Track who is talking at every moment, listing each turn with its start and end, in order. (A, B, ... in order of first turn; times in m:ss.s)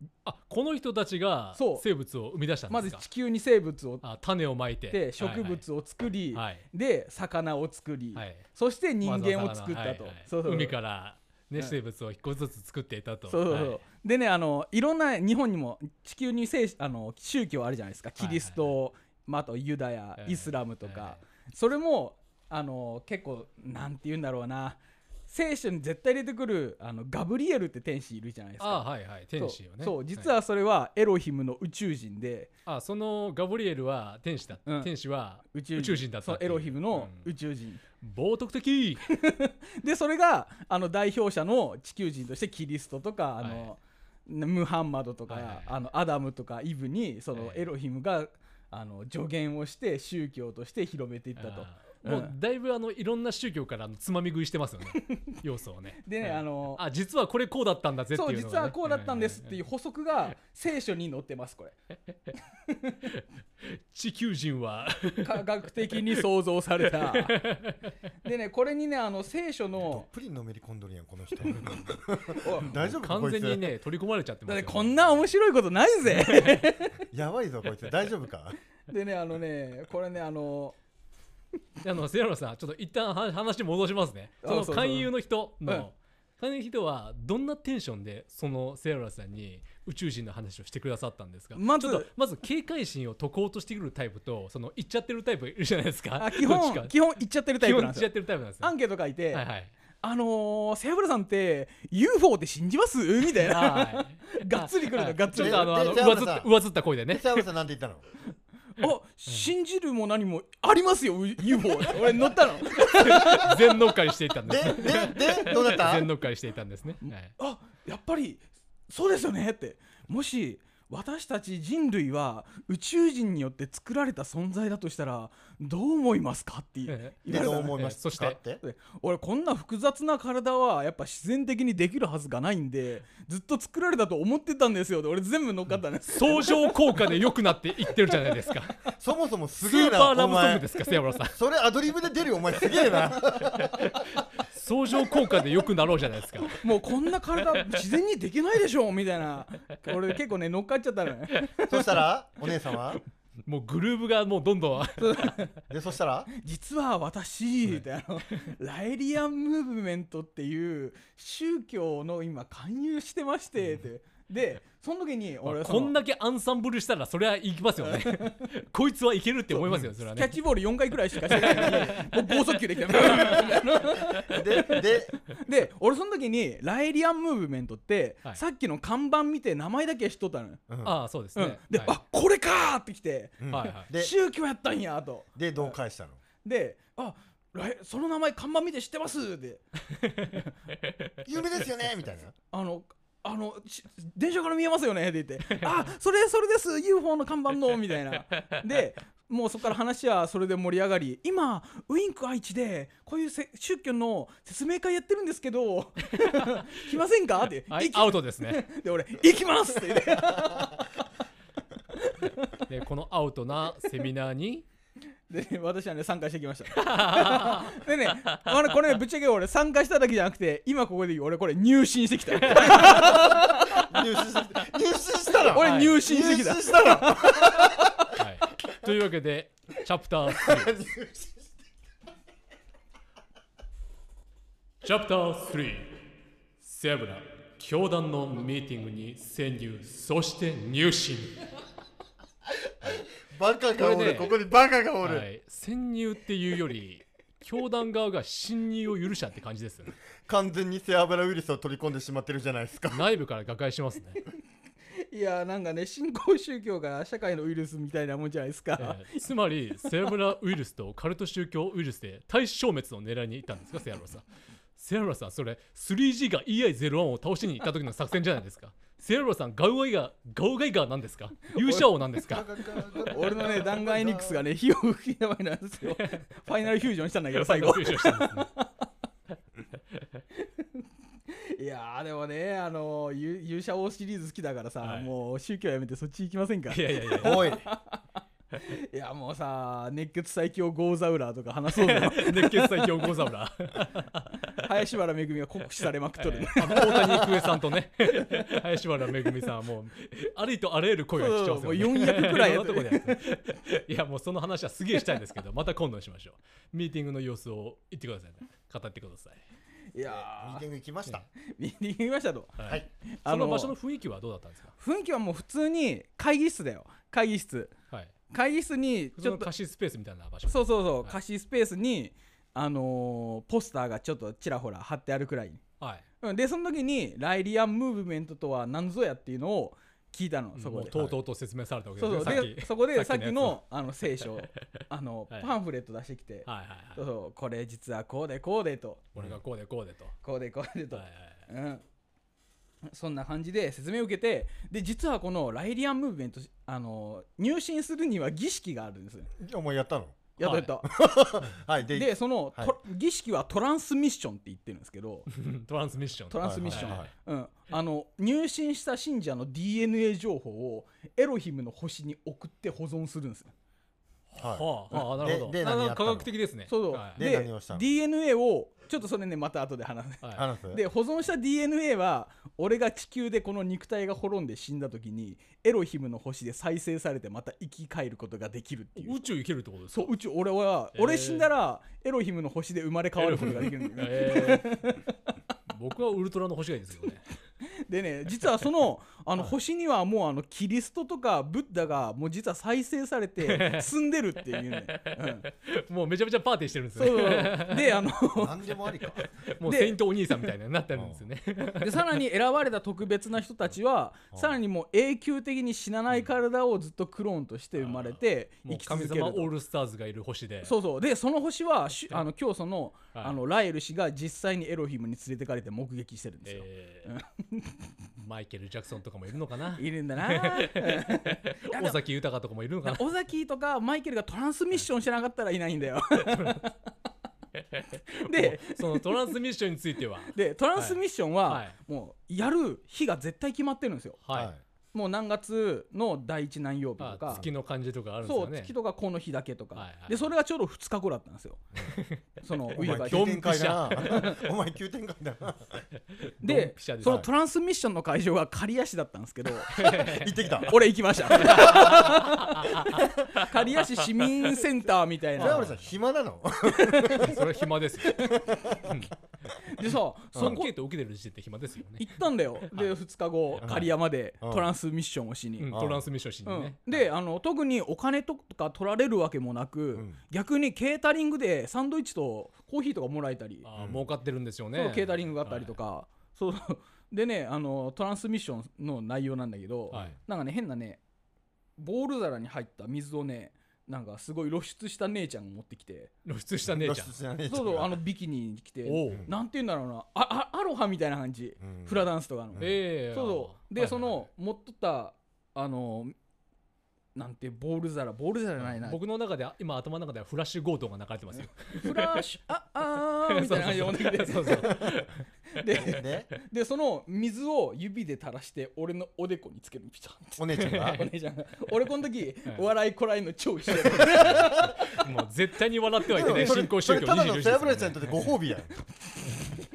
0:00.2-0:03.0 A
0:01.6-0:01.8 B
0:02.7-0:04.0 B
0:04.0-0:05.6 A
0:04.9-0:10.7 B
0:06.3-0:06.6 A
0:08.2-0:08.4 A
0:09.0-0:13.8 A
0:13.3-0:32.5 B
0:18.2-0:18.7 A
0:20.2-0:21.2 A
0:28.6-0:30.3 A
0:32.6-0:37.3 A
0:35.5-0:37.8 B
0:38.0-0:39.1 A
0:39.1-0:52.3 B
0:43.4-0:43.7 A
0:45.3-0:45.7 A
0:47.3-0:47.7 A
0:51.4-0:59.5 A
0:54.9-0:55.4 B
0:56.0-0:56.8 B
0:58.1-1:01.7 B
1:02.7-1:03.0 B
1:03.6-1:05.4 A
1:05.2-1:07.4 B
1:07.0-1:07.8 A
1:08.2-1:10.1 B
1:09.8-1:13.7 C
1:12.3-1:12.8 B
1:13.0-1:15.0 A
1:14.5-1:17.0 B
1:16.2-1:16.6 A
1:17.1-1:18.6 C
1:18.9-1:20.7 B
1:21.8-1:36.9 A
1:24.4-1:25.1 B
1:31.5-1:32.1 B
1:36.2-1:39.4 B
1:37.6-1:38.7 A
1:39.3-1:39.7 A
1:40.0-1:46.0 B
1:43.3-1:47.4 A
1:45.3-1:46.5 C
1:47.1-1:48.0 C
1:48.8-1:53.8 B
1:52.8-1:57.3 A
1:54.4-1:56.1 C
1:54.9-1:55.5 B
1:57.0-2:07.8 B
2:06.9-2:08.4 A
2:07.3-2:08.6 C
2:08.6-2:16.8 B
2:16.0-2:18.8 A
2:19.0-2:20.6 C
2:19.6-2:21.4 A
2:21.3-2:23.8 C
2:23.8-2:26.6 A
2:26.5-2:31.8 B
2:31.7-2:33.0 C
2:33.4-2:35.4 A
2:35.0-2:35.6 B
2:35.7-2:36.3 C
2:36.3-2:45.9 B
2:45.4-2:50.4 A
2:47.8-2:48.5 B
2:49.7-3:00.6 B
2:51.2-2:52.2 A
2:53.0-2:53.3 A
2:54.2-2:55.1 C
3:00.7-3:01.0 C
3:00.8-3:01.9 A
3:01.3-3:05.7 B
3:03.4-3:04.1 C
3:03.5-3:03.9 A
3:05.4-3:06.2 C
3:06.4-3:09.6 B
3:11.2-3:12.3 C
3:12.5-3:31.0 B
3:26.2-3:26.6 A
3:27.7-3:28.6 A
3:31.9-3:32.6 B
3:32.7-3:34.6 A
3:35.3-3:43.9 B
3:36.7-3:37.8 A
3:42.5-3:43.0 A
3:43.1-3:47.9 C
3:45.5-3:48.1 B
3:45.5-3:46.0 A
3:48.1-3:50.8 A
3:50.4-3:51.5 C
3:54.8-3:56.0 A
3:56.6-4:01.4 A
4:03.2-4:05.2 C
4:03.7-4:04.4 A
4:05.0-4:10.0 A
4:10.3-4:13.0 C
4:12.9-4:14.2 A
4:15.0-4:19.2 B
4:18.8-4:24.2 A
4:24.8-4:32.6 A
4:32.2-4:34.4 C
4:33.0-4:38.8 B
4:36.0-4:36.2 A
4:37.3-4:38.5 A
4:40.4-4:48.0 B
4:44.8-4:45.1 A
4:46.7-4:47.5 A
4:47.2-4:47.6 C
4:48.5-4:53.0 B
4:51.7-4:54.6 A
4:54.5-4:57.4 B
4:56.2-5:09.4 A
5:01.1-5:03.2 B
5:09.9-5:10.6 B
5:10.1-5:11.2 C
5:11.4-5:12.6 B
5:12.6-5:14.7 A
5:13.1-5:13.7 B
5:14.8-5:17.7 B
5:18.3-5:19.5 B
5:19.2-5:21.2 A
5:20.5-5:25.6 B
5:26.2-5:31.2 B
5:30.6-5:33.6 A
5:32.0-5:39.0 B
5:36.4-5:37.0 A
5:39.1-5:40.1 A
5:40.2-5:41.8 B
5:40.9-5:41.4 A
5:42.9-5:49.3 B
5:49.4-5:50.3 C
5:50.4-5:50.9 B
5:50.4-5:50.7 A
5:50.8-5:52.7 C
5:51.9-5:55.3 B
5:55.3-5:57.1 A
5:56.3-6:03.5 B
5:56.4-5:57.1 C
6:04.3-6:07.2 A
6:04.4-6:06.3 C
6:06.7-6:19.2 B
6:07.2-6:07.8 C
6:10.4-6:10.8 C
6:19.0-6:20.1 A
6:19.9-6:25.2 B
6:20.9-6:21.5 A
6:23.2-6:24.8 A
6:25.7-6:27.3 A
6:27.8-6:35.5 B
6:33.4-6:33.9 A
6:35.0-6:38.1 A
6:37.0-6:38.6 B
6:38.4-6:39.2 C
6:39.4-6:42.1 A
6:39.6-6:40.0 B
6:41.8-6:49.5 B
6:47.8-6:50.7 A
6:50.6-6:57.7 B
6:56.4-6:57.1 A
6:58.2-7:03.1 A
6:59.8-7:02.0 B
7:02.8-7:06.7 B
7:06.3-7:06.6 A
7:07.7-7:11.8 A
7:08.2-7:09.3 B
7:10.3-7:14.2 B
7:14.2-7:14.5 A
7:14.3-7:14.6 C
7:14.9-7:17.4 B
7:17.0-7:18.7 A
7:18.2-7:21.6 B
7:19.8-7:20.3 A
7:21.8-7:22.2 A
7:22.4-7:23.4 B
7:22.7-7:24.4 A
7:22.8-7:25.8 C
7:23.9-7:24.4 B
7:26.2-7:27.2 A
7:26.4-7:29.7 B
7:29.7-7:30.7 A
7:29.8-7:30.7 C
7:30.7-7:35.7 B
7:31.3-7:33.4 A
7:31.4-7:31.8 C
7:35.4-7:35.8 A
7:35.4-7:37.4 C
7:36.7-7:37.4 B
7:37.2-7:38.3 A
7:38.1-7:38.4 B
7:38.3-7:38.9 C
7:38.8-7:39.1 A
7:39.6-7:40.7 B
7:40.3-7:42.9 A
7:42.0-7:45.8 B
7:43.5-7:43.9 A
7:43.6-7:43.9 C
7:44.4-7:44.7 C
7:45.6-7:47.0 A
7:45.7-7:46.0 C
7:46.4-7:53.7 B
7:53.6-7:55.7 A
7:53.8-7:54.0 C
7:54.7-8:01.0 B
8:01.8-8:06.1 B
8:06.2-8:07.1 A
8:06.6-8:08.0 C
8:07.5-8:16.1 B
8:08.8-8:09.3 A
8:11.6-8:12.8 C
8:12.6-8:14.2 A
8:17.2-8:19.0 B
8:18.6-8:22.2 A
8:21.8-8:24.8 B
8:23.3-8:25.2 A
8:25.5-8:34.8 B
8:25.8-8:26.3 C
8:30.4-8:31.0 C
8:30.6-8:31.0 A
8:34.0-8:38.3 A
8:36.1-8:38.8 C